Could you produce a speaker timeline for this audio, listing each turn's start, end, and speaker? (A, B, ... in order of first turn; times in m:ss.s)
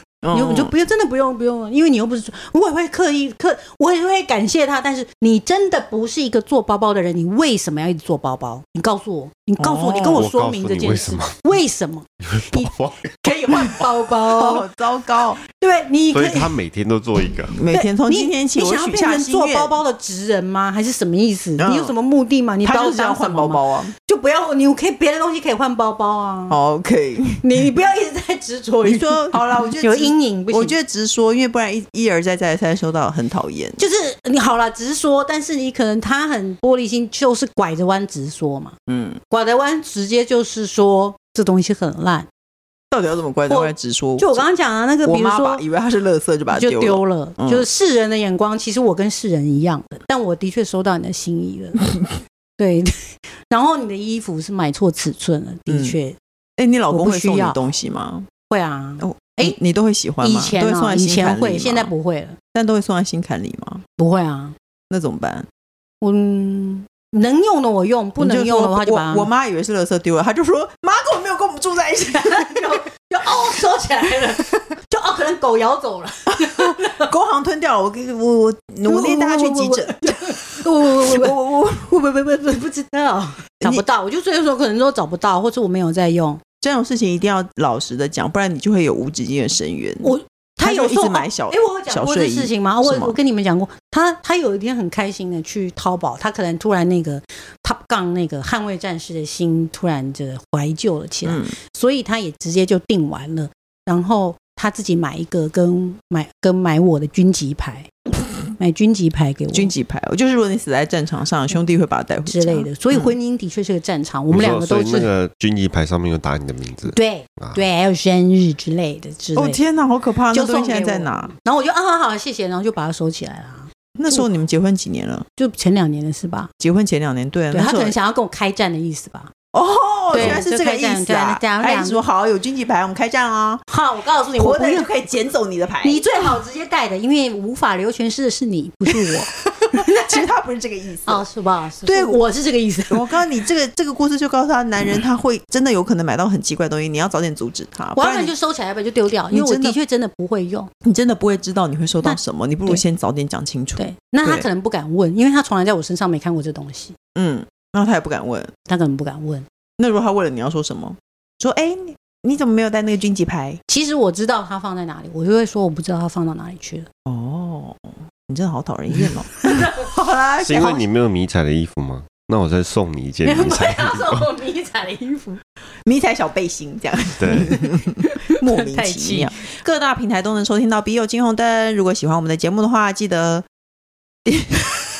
0:00.2-0:00.7 A
0:00.3-0:14.6 B
0:09.6-0:10.2 A
0:10.1-0:11.4 C
0:12.2-0:13.8 C
0:14.3-0:15.4 A
0:15.6-0:16.6 B
0:16.1-0:17.6 C
0:17.5-0:19.8 A
0:17.7-0:26.6 B
0:21.6-0:21.9 A
0:22.6-0:23.9 A
0:26.5-0:27.4 A
0:27.4-0:30.7 B
0:28.8-0:33.8 A
0:33.8-0:38.8 B
0:38.9-0:39.2 A
0:39.3-0:42.3 B
0:42.9-0:44.4 A
0:43.5-0:45.6 B
0:45.0-0:47.7 A
0:46.5-0:56.2 B
0:55.7-0:56.0 A
0:56.6-0:58.3 A
0:56.9-0:57.6 B
0:58.5-0:59.6 B
0:59.0-1:01.9 A
1:00.2-1:02.4 B
1:02.5-1:03.8 A
1:04.0-1:04.5 B
1:04.9-1:05.5 A
1:06.0-1:09.3 B
1:08.2-1:12.7 A
1:12.1-1:17.1 B
1:16.4-1:22.1 A
1:18.8-1:26.4 B
1:26.6-1:33.2 A
1:30.0-1:47.9 B
1:41.2-1:41.5 A
1:48.4-1:49.7 B
1:49.5-1:53.1 A
1:52.2-1:55.1 B
1:54.3-1:57.6 C
1:56.9-1:59.6 B
1:59.3-2:01.3 A
2:00.3-2:04.3 B
2:04.0-2:05.2 A
2:05.4-2:06.5 B
2:06.6-2:08.0 A
2:07.5-2:09.3 B
2:09.5-2:13.6 A
2:10.1-2:12.0 B
2:10.2-2:10.4 C
2:13.7-2:14.9 B
2:14.4-2:16.0 A
2:15.8-2:19.8 B
2:19.8-2:21.2 A
2:21.0-2:23.0 B
2:21.8-2:22.2 A
2:22.9-2:28.3 A
2:27.9-2:30.7 B
2:29.3-2:29.8 A
2:30.8-2:34.4 A
2:32.0-2:32.8 B
2:33.8-2:37.0 B
2:37.2-2:38.5 A
2:38.7-2:39.4 B
2:39.8-2:43.6 A
2:43.7-2:46.9 B
2:47.1-2:50.8 A
2:49.5-2:49.8 B
2:50.4-2:54.2 C
2:53.2-2:55.4 B
2:55.8-3:03.4 A
2:57.2-2:57.6 C
2:57.4-2:59.3 B
3:04.2-3:04.8 A